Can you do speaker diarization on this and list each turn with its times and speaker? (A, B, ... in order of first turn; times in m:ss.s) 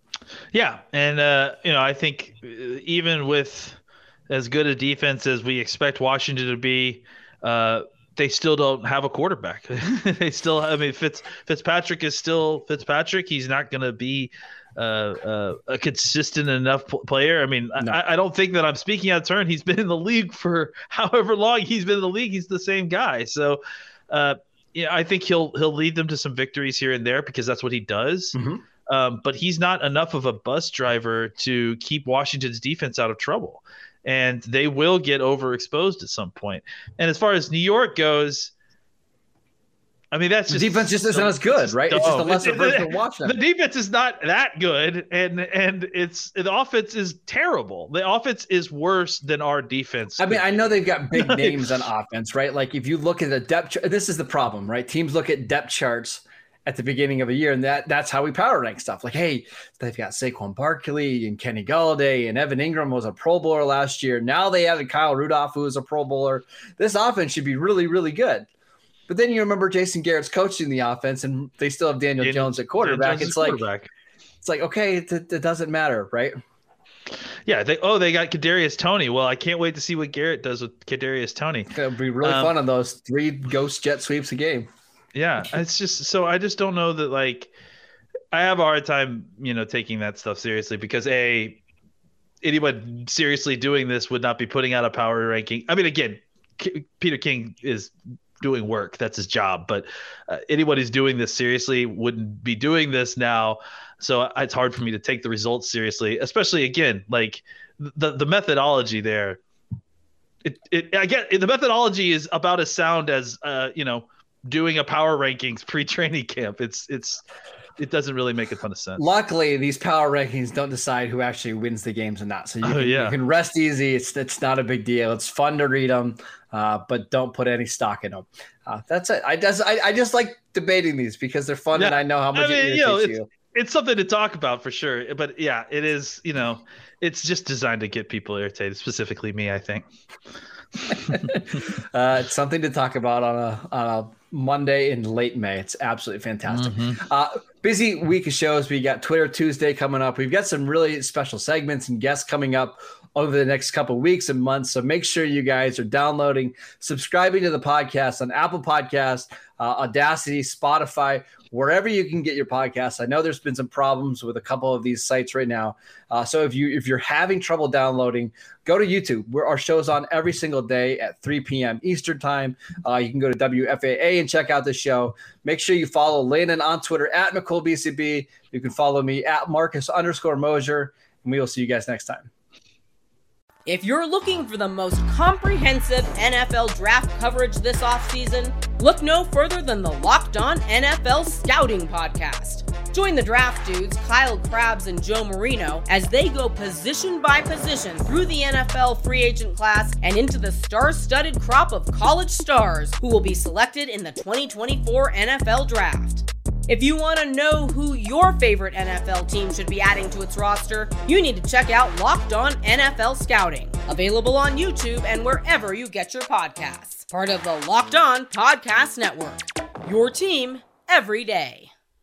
0:00.5-0:28.3 A
0:28.3-0:28.6 B
0:28.9-0:38.5 A
0:40.1-0:51.6 A
0:40.5-0:43.4 B
0:50.2-1:08.5 B
1:09.1-1:13.6 B
1:12.2-1:13.9 A
1:14.4-1:16.3 B
1:17.4-1:21.7 A
1:21.7-1:24.7 B
1:22.2-1:22.5 A
1:25.1-1:27.5 A
1:28.3-1:31.6 A
1:32.4-1:49.4 A
1:50.4-1:57.2 A
1:57.8-1:59.0 A
1:59.0-2:13.3 B
2:02.6-2:03.2 A
2:11.7-2:19.8 A
2:20.9-2:21.2 A
2:20.9-3:02.3 B
2:26.5-2:27.0 A
3:03.6-3:41.7 C